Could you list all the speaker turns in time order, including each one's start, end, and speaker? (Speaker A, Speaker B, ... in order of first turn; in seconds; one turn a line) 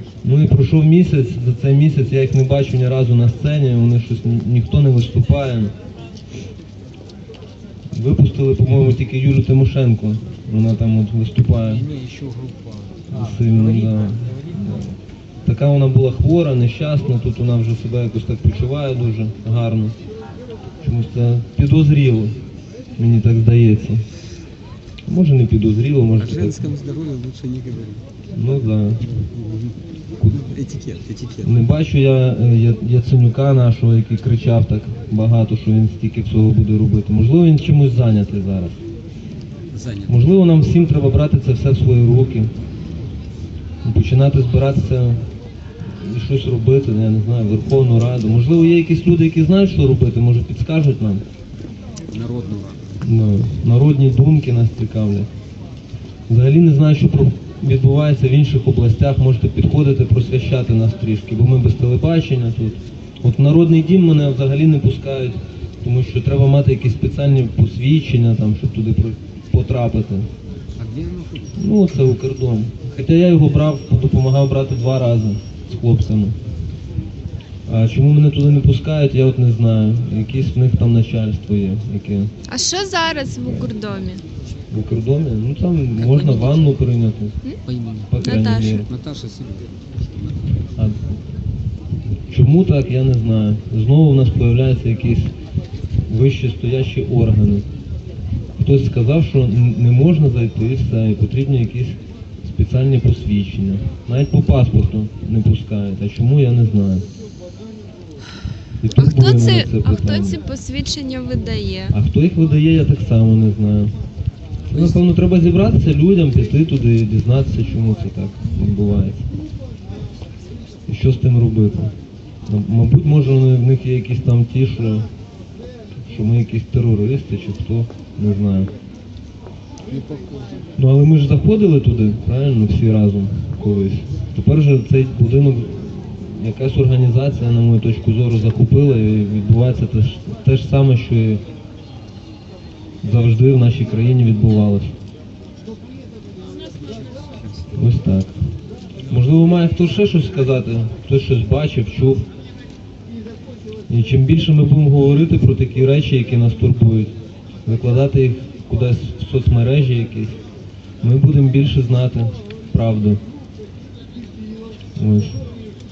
Speaker A: 0.2-5.7
Speaker A: 7.9-11.9
Speaker B: 11.6-14.4
Speaker A: 13.1-20.0
Speaker A: 20.8-22.4
Speaker A: 23.0-24.1
Speaker A: 25.1-26.7
Speaker B: 26.1-28.1
Speaker A: 28.3-29.1
Speaker B: 29.1-29.8
Speaker A: 30.2-30.5
Speaker B: 30.3-31.5
Speaker A: 31.4-38.8
Speaker B: 39.7-40.2
Speaker A: 40.1-42.5
Speaker A: 43.8-45.2
Speaker A: 45.9-51.2
Speaker B: 52.1-52.9
Speaker A: 53.0-55.3
Speaker A: 56.3-70.3
Speaker B: 70.8-71.6
Speaker A: 71.6-76.4
Speaker A: 77.7-82.3
Speaker C: 82.5-84.2
Speaker A: 83.4-83.7
Speaker A: 84.7-87.4
Speaker B: 86.2-86.7
Speaker B: 87.7-90.7
Speaker A: 88.1-88.9
Speaker C: 88.2-88.9
Speaker A: 90.8-91.1
Speaker A: 92.3-95.3
Speaker A: 96.1-97.7
Speaker A: 98.6-107.1
Speaker A: 108.8-110.4
Speaker C: 109.0-112.0
Speaker A: 111.9-113.9
Speaker A: 114.7-119.2
Speaker B: 114.7-115.0
Speaker A: 120.9-121.9
Speaker A: 122.5-125.1
Speaker A: 126.1-128.7
Speaker B: 129.9-130.6
Speaker A: 130.8-141.4
Speaker A: 143.0-144.9
Speaker B: 147.1-147.8
Speaker A: 147.7-148.3
Speaker A: 149.1-152.3
Speaker A: 153.9-157.1
Speaker A: 157.7-160.4
Speaker A: 161.0-163.2
Speaker A: 165.0-165.4